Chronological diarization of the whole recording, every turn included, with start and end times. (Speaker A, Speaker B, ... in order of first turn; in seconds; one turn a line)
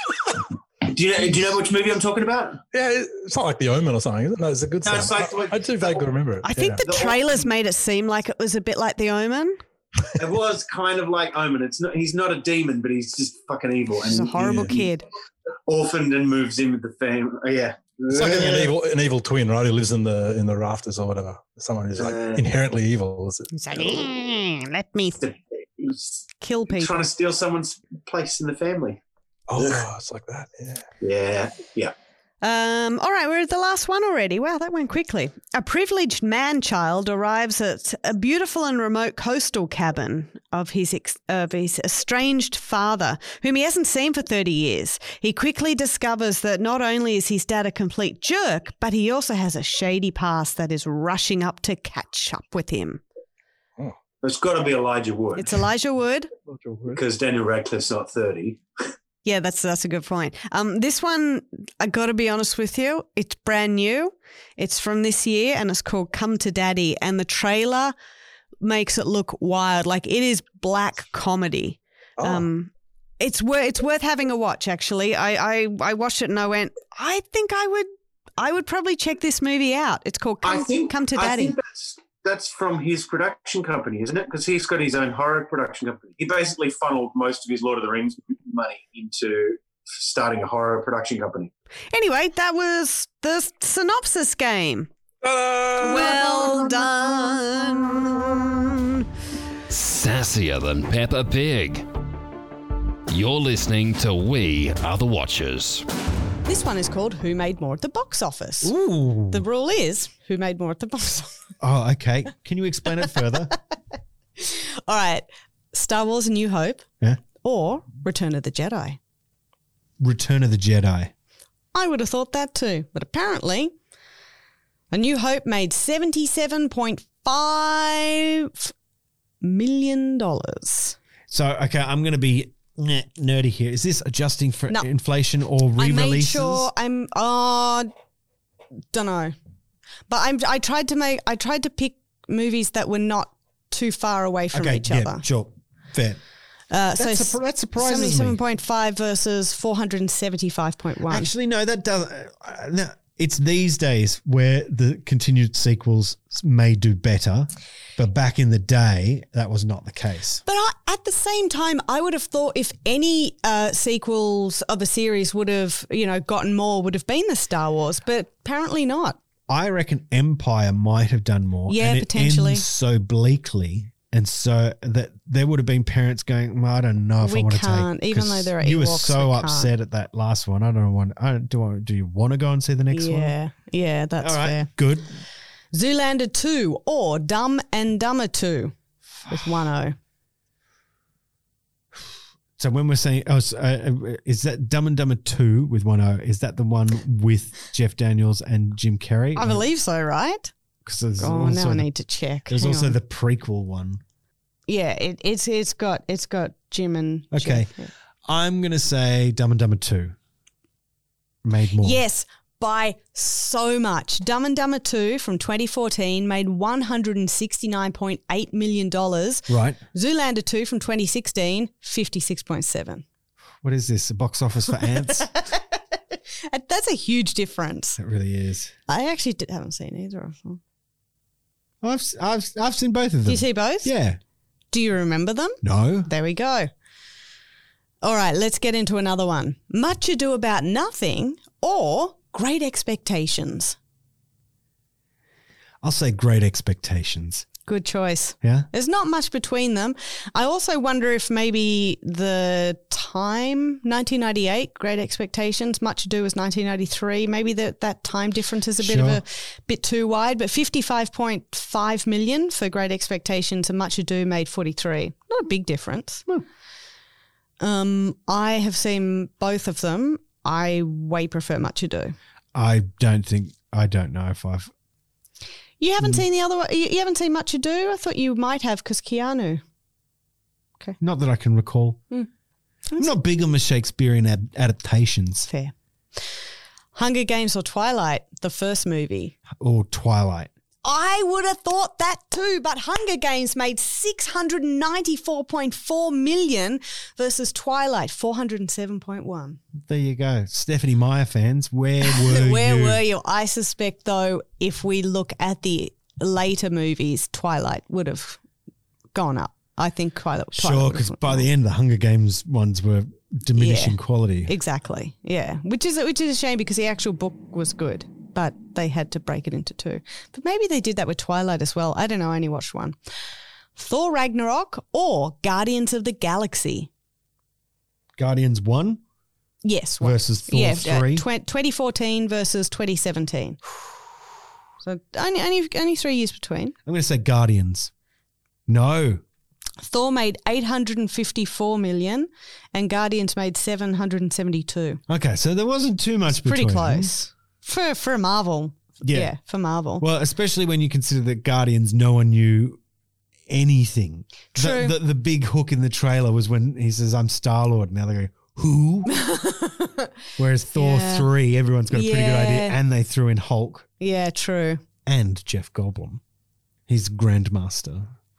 Speaker A: 0.8-2.6
Speaker B: 2.7-6.8
Speaker A: 4.8-6.0
Speaker C: 6.4-9.6
Speaker A: 6.8-7.3
Speaker A: 10.2-14.8
Speaker C: 14.0-15.0
Speaker B: 14.4-14.7
Speaker A: 15.7-18.7
Speaker B: 18.1-23.5
Speaker A: 22.0-22.4
Speaker C: 23.5-25.2
Speaker A: 25.2-29.0
Speaker C: 26.4-27.0
Speaker B: 29.5-30.9
Speaker A: 29.6-29.8
Speaker A: 31.0-31.9
Speaker C: 32.4-53.0
Speaker A: 54.2-55.6
Speaker C: 55.4-56.3
Speaker B: 56.5-57.0
Speaker A: 56.9-58.6
Speaker C: 59.2-67.9
Speaker C: 68.6-81.5
Speaker B: 72.2-72.5
Speaker A: 80.4-91.5
Speaker C: 91.9-94.9
Speaker B: 95.2-96.2
Speaker C: 95.8-98.2
Speaker D: 99.7-101.8
Speaker D: 103.1-105.8
Speaker C: 106.5-108.8
Speaker E: 108.6-109.4
Speaker C: 109.3-111.3
Speaker E: 111.6-113.5
Speaker C: 114.4-116.8
Speaker C: 117.4-119.0
Speaker E: 120.0-121.1
Speaker C: 121.7-123.7
Speaker C: 124.9-128.7
Speaker C: 129.4-130.9
Speaker E: 131.3-136.7
Speaker C: 135.8-137.9
Speaker C: 138.9-139.3
Speaker C: 140.1-145.2
Speaker E: 144.5-146.2
Speaker C: 146.7-151.3
Speaker E: 146.9-148.4
Speaker E: 151.1-160.4
Speaker C: 160.4-169.2
Speaker E: 169.5-183.3
Speaker C: 171.7-172.6
Speaker C: 177.2-179.7
Speaker C: 182.9-184.7
Speaker E: 184.2-185.2
Speaker C: 185.7-188.7
Speaker E: 189.2-189.6
Speaker C: 189.3-189.9
Speaker E: 192.6-199.7
Speaker C: 199.3-200.5
Speaker E: 200.8-201.9
Speaker C: 201.2-202.9
Speaker E: 202.5-204.0
Speaker C: 204.7-207.9
Speaker E: 207.3-207.7
Speaker E: 208.2-210.1
Speaker E: 211.4-212.0
Speaker C: 211.8-223.0
Speaker E: 219.5-219.8
Speaker E: 223.6-225.3
Speaker C: 224.9-225.6
Speaker C: 226.5-228.0
Speaker E: 228.0-228.7
Speaker C: 228.9-230.6
Speaker E: 231.8-234.2
Speaker C: 233.2-233.9
Speaker C: 234.7-236.7
Speaker E: 235.6-236.1
Speaker C: 238.0-243.8
Speaker E: 245.8-247.4
Speaker C: 247.7-266.2
Speaker E: 248.4-248.7
Speaker E: 258.8-259.2
Speaker C: 267.6-272.1
Speaker E: 272.5-274.7
Speaker C: 275.8-279.6
Speaker E: 281.0-282.0
Speaker E: 283.0-285.5
Speaker C: 285.5-285.7
Speaker C: 286.9-289.3
Speaker E: 289.6-290.5
Speaker C: 290.8-299.6
Speaker E: 299.8-303.0
Speaker C: 302.0-308.4
Speaker C: 309.1-311.5
Speaker E: 310.5-314.5
Speaker C: 313.6-322.9
Speaker C: 323.7-326.9
Speaker E: 328.2-329.0
Speaker C: 329.6-333.6
Speaker E: 330.0-331.3
Speaker C: 334.8-336.7
Speaker E: 336.9-337.9
Speaker E: 338.7-339.2
Speaker C: 339.8-345.0
Speaker E: 345.1-347.1
Speaker C: 346.4-350.0
Speaker E: 349.0-349.3
Speaker E: 350.0-352.8
Speaker E: 353.5-359.1
Speaker C: 354.5-354.9
Speaker C: 359.1-360.1
Speaker E: 360.4-363.9
Speaker C: 360.7-361.3
Speaker C: 361.9-362.8
Speaker C: 364.0-364.8
Speaker E: 365.1-366.2
Speaker E: 366.9-368.1